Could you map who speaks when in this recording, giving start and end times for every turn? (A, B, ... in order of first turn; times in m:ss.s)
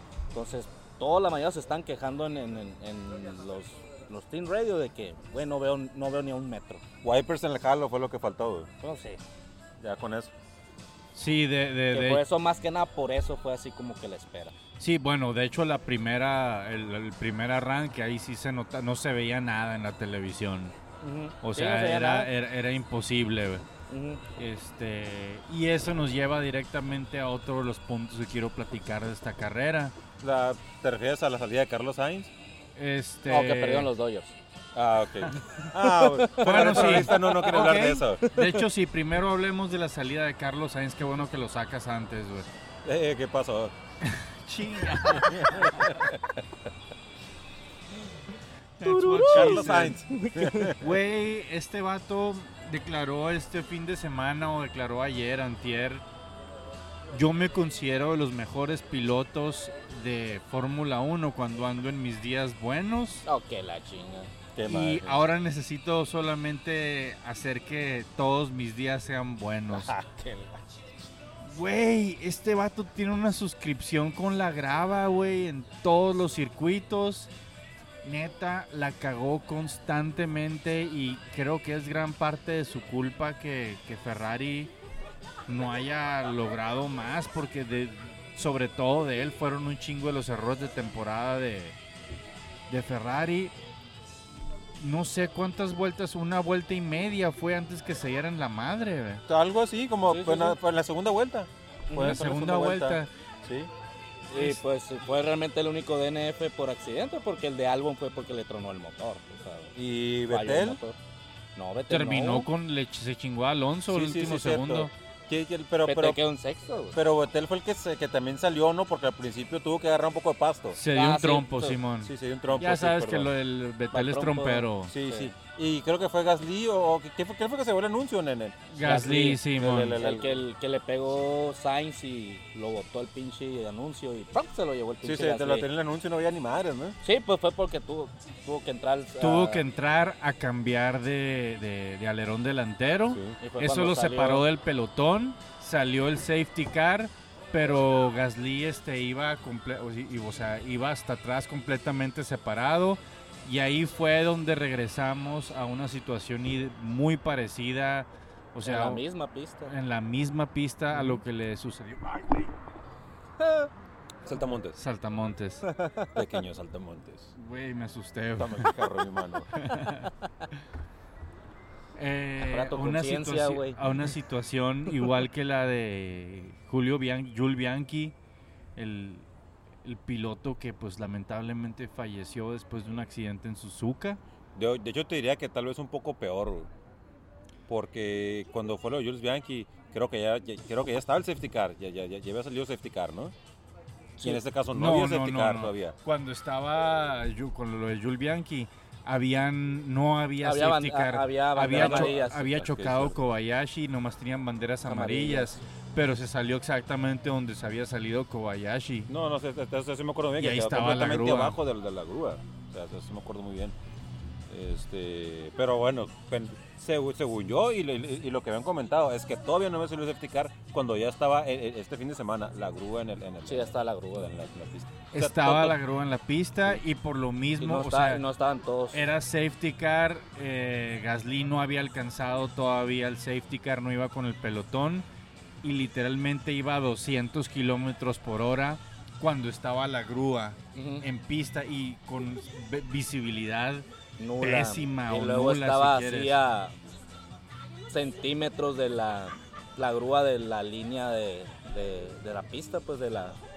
0:00.3-0:06.8 A
0:07.0-0:08.7 B
0:08.8-0:09.2 A
0:09.8-0:10.3 B
0:11.1-0:12.2 C
0:11.9-0:14.6 A
0:14.8-0:20.7 C
0:21.0-0:22.3 A
0:21.4-0:23.7 C
0:23.9-0:24.2 A
0:24.4-0:29.9 C
0:30.2-0:32.3 B
0:32.8-0:33.9 C
0:33.3-0:34.4 A
0:34.7-0:38.2 B
0:35.8-0:38.6 A
0:36.4-0:42.5 C
0:42.8-0:43.8 B
0:44.0-0:45.9 C
0:45.1-0:46.2 B
0:48.8-0:50.0 C
0:48.8-0:50.8 A
0:49.3-0:50.9 B
0:50.8-0:56.0 C
0:57.1-1:03.3 C
1:03.3-1:04.3 A
1:04.6-1:05.3 B
1:04.7-1:09.9 C
1:09.8-1:10.6 A
1:11.4-1:17.3 C
1:18.0-1:24.7 C
1:25.5-1:31.8 C
1:32.7-1:33.5 C
1:34.8-1:39.2 C
1:39.3-1:43.7 B
1:40.1-1:40.6 A
1:41.9-1:42.2 A
1:42.0-1:43.1 C
1:44.3-1:49.7 A
1:44.4-1:44.6 C
1:49.8-1:50.8 B
1:50.3-1:51.0 A
1:51.6-1:52.5 A
1:51.9-1:54.9 C
1:53.9-1:56.2 B
1:55.8-1:57.0 A
1:56.9-2:00.8 B
2:00.8-2:04.9 C
2:00.9-2:01.8 A
2:02.0-2:03.3 B
2:03.9-2:05.3 A
2:04.9-2:08.7 B
2:08.7-2:10.0 C
2:08.8-2:09.4 A
2:09.5-2:10.4 B
2:10.0-2:15.7 A
2:15.0-2:17.0 B
2:17.0-2:19.6 A
2:19.2-2:39.0 C
2:23.1-2:23.4 B
2:23.4-2:24.4 A
2:38.6-2:39.7 A
2:39.7-2:42.5 C
2:43.4-2:43.7 A
2:44.2-2:44.8 B
2:44.8-2:45.7 C
2:45.7-2:46.1 A
2:46.1-2:47.3 B
2:47.4-2:48.8 C
2:48.4-2:49.5 B
2:49.5-2:50.1 C
2:52.0-2:58.1 C
2:52.4-2:53.8 A
2:58.8-2:59.3 C
2:59.8-3:04.2 C
3:04.6-3:06.7 B
3:07.7-3:13.3 B
3:14.2-3:16.0 B
3:14.7-3:29.1 C
3:20.4-3:22.5 A
3:21.7-3:23.2 B
3:24.8-3:25.6 A
3:29.1-3:33.8 B
3:30.4-3:31.6 C
3:34.5-3:45.8 B
3:43.5-3:44.3 A
3:45.1-3:48.2 C
3:47.6-3:49.0 A
3:48.9-3:55.0 C
3:55.6-4:03.8 C
4:00.8-4:01.1 A
4:04.2-4:06.8 A
4:04.4-4:06.4 C
4:07.9-4:13.4 A